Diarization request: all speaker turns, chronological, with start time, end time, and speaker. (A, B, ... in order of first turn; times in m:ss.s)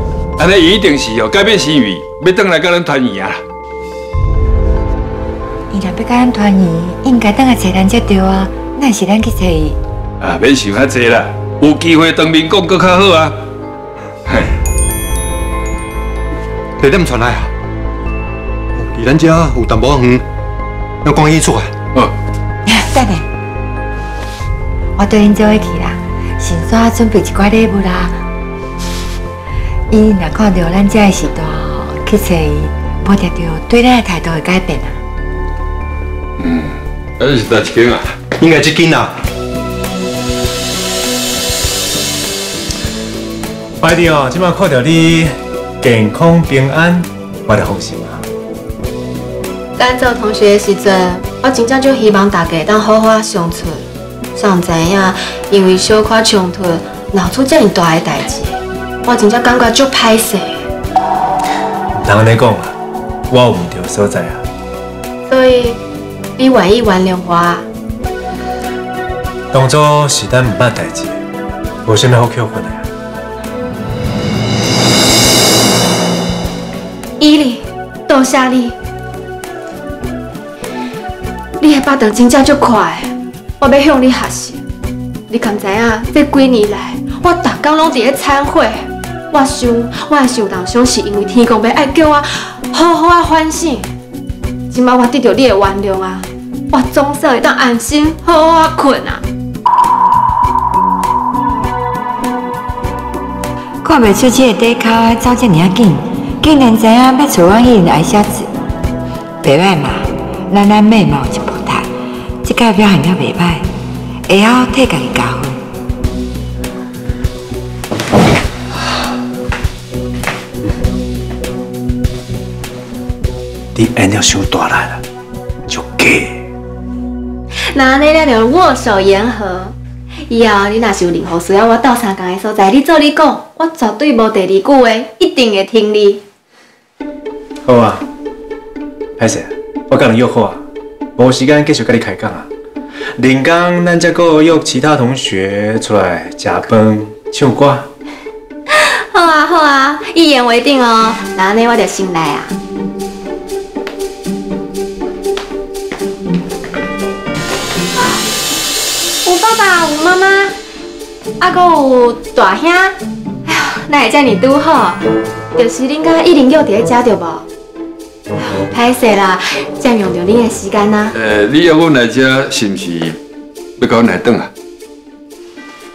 0:00.4-0:03.4 A
0:05.7-0:09.8 B
0:10.2-0:13.4 A
0:14.3-0:14.5 A
0:16.8-0:17.5 C
0:18.7-0:20.3 C
0:21.0-0:21.7 C
0:22.7-0:23.3 B
0:25.0-0:28.2 B
0:29.9-0:35.0 B
0:36.4-0:38.1 A
0:38.4-0:39.2 C
0:43.8-0:48.2 D
0:49.8-1:00.6 E
1:01.9-1:02.8 D
1:03.3-1:04.4 D
1:05.3-1:05.8 E
1:06.4-1:07.7 E
1:09.5-1:11.2 D
1:11.8-1:12.9 D
1:17.2-1:18.8 E
1:21.6-1:24.6 E
1:25.3-1:33.9 E
1:34.7-1:39.2 E
1:43.8-1:48.5 B
1:49.4-1:51.9 B
1:52.4-1:53.7 B
1:54.3-1:55.6 B
2:03.7-2:05.0 D
2:05.7-2:06.5 D
2:07.7-2:09.7 E
2:10.3-2:16.2 E
2:17.6-2:18.1 D
2:19.2-2:20.6 D
2:21.2-2:22.5 D
2:23.2-2:27.9 D
2:28.8-2:32.5 E
2:39.2-2:40.6 E
2:41.4-2:47.5 E
2:48.6-2:51.1 E
2:51.1-2:53.2 A
2:53.8-2:54.5 A